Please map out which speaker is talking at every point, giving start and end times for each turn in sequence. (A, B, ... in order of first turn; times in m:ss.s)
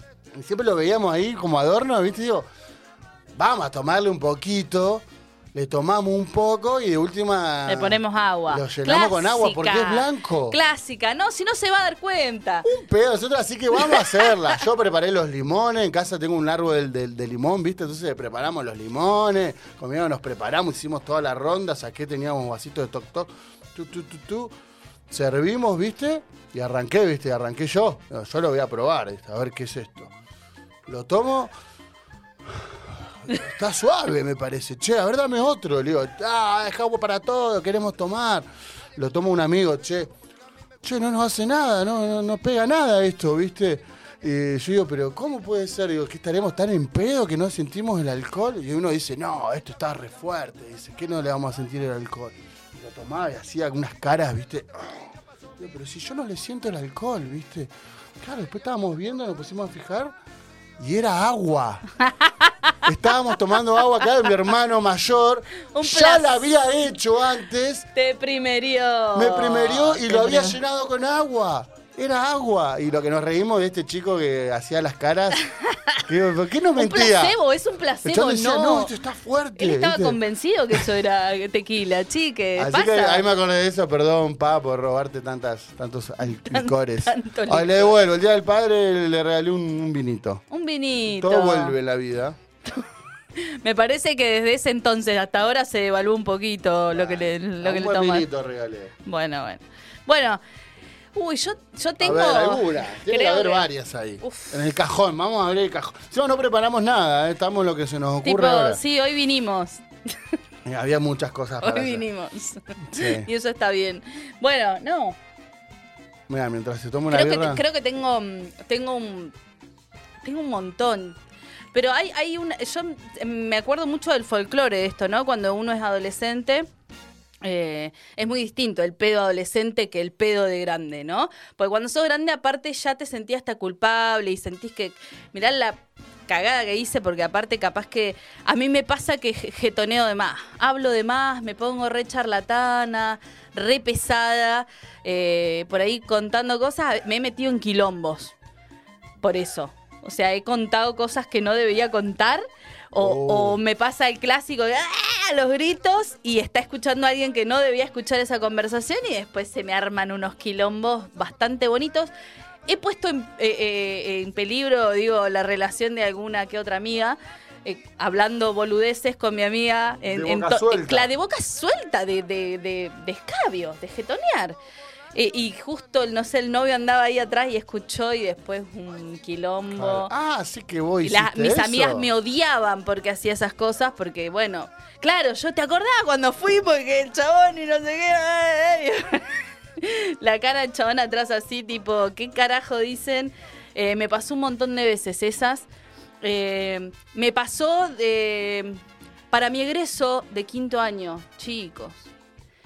0:00.3-0:02.5 A
0:03.3-0:10.6 A
0:07.6-0:12.7 B
0:12.6-0:24.5 A
0:13.8-0:14.6 B
0:25.1-0:30.1 A
0:30.8-0:31.5 A
0:32.5-0:32.7 A
0:33.2-0:40.1 A
0:40.8-1:00.1 A
1:00.8-1:01.9 A
1:02.8-1:07.9 A
1:05.7-1:06.5 B
1:07.9-1:10.6 B
1:09.1-1:15.4 A
1:15.7-1:16.0 B
1:16.0-1:17.4 A
1:16.8-1:18.9 B
1:18.0-1:20.2 A
1:19.6-1:23.2 B
1:22.6-1:30.4 A
1:26.5-1:27.9 B
1:30.5-1:31.8 B
1:31.1-1:32.4 A
1:33.4-1:38.3 B
1:36.9-1:38.9 A
1:39.0-1:40.4 B
1:41.1-1:43.7 B
1:42.0-1:48.8 A
1:44.2-1:44.6 B
1:48.2-1:49.8 B
1:50.6-1:52.0 A
1:51.6-1:55.2 B
1:52.8-1:53.3 A
1:56.3-1:57.6 A
1:57.1-1:59.3 B
2:00.2-2:01.2 B
2:01.7-2:06.7 B
2:07.4-2:28.3 B
2:29.2-2:42.1 B
2:32.9-2:33.6 A
2:42.7-2:54.6 B
2:50.0-2:51.1 A
2:55.1-3:00.1 B
2:59.7-3:02.1 A
3:01.0-3:15.7 B
3:16.2-3:22.1 B